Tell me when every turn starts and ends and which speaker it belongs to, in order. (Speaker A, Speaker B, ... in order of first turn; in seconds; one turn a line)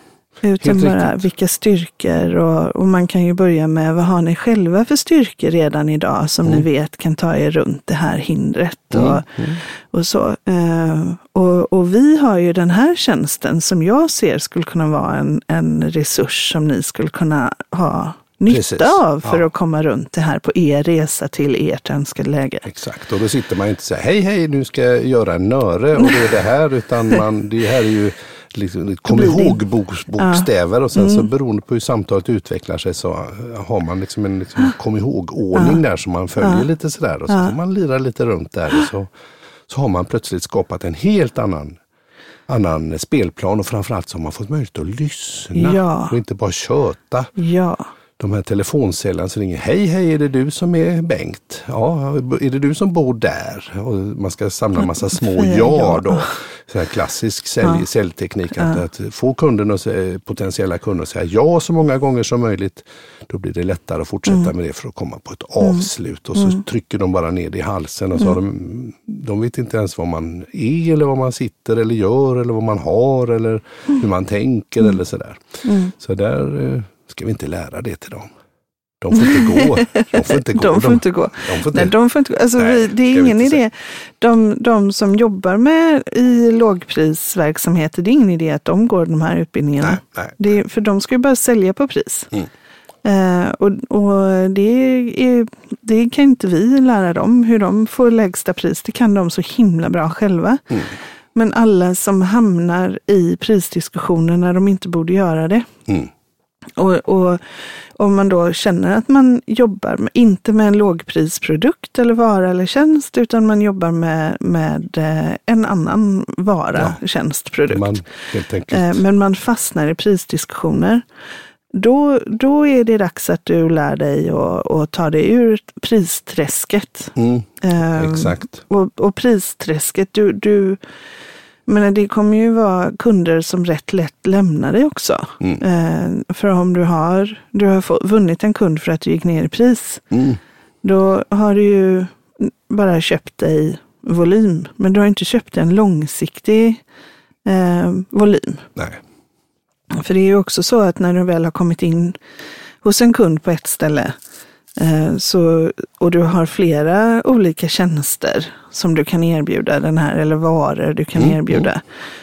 Speaker A: 0.4-9.3
Speaker B: 0.6-1.2
Speaker B: 8.9-9.6
Speaker A: 9.9-22.7
Speaker B: 18.5-19.4
Speaker B: 22.6-39.1
Speaker A: 29.1-29.6
Speaker A: 30.2-30.4
Speaker A: 31.0-31.2
Speaker B: 39.7-41.8
Speaker B: 42.5-47.3
Speaker A: 45.5-46.1
Speaker A: 47.4-47.9
Speaker B: 48.2-78.3
Speaker A: 55.1-56.3
Speaker A: 75.6-75.9
Speaker B: 79.0-81.9
Speaker A: 79.1-92.3
Speaker B: 82.6-83.6
Speaker B: 89.8-90.4
Speaker A: 93.0-105.7
Speaker A: 106.8-107.4
Speaker A: 107.9-118.0
Speaker B: 117.7-119.0
Speaker A: 118.7-121.0
Speaker A: 121.7-130.8
Speaker B: 127.2-128.6
Speaker A: 131.7-140.1
Speaker B: 140.1-140.4
Speaker A: 140.8-146.8
Speaker A: 147.4-148.7
Speaker A: 149.9-152.2
Speaker A: 152.8-154.2
Speaker A: 154.8-161.8
Speaker B: 161.2-161.6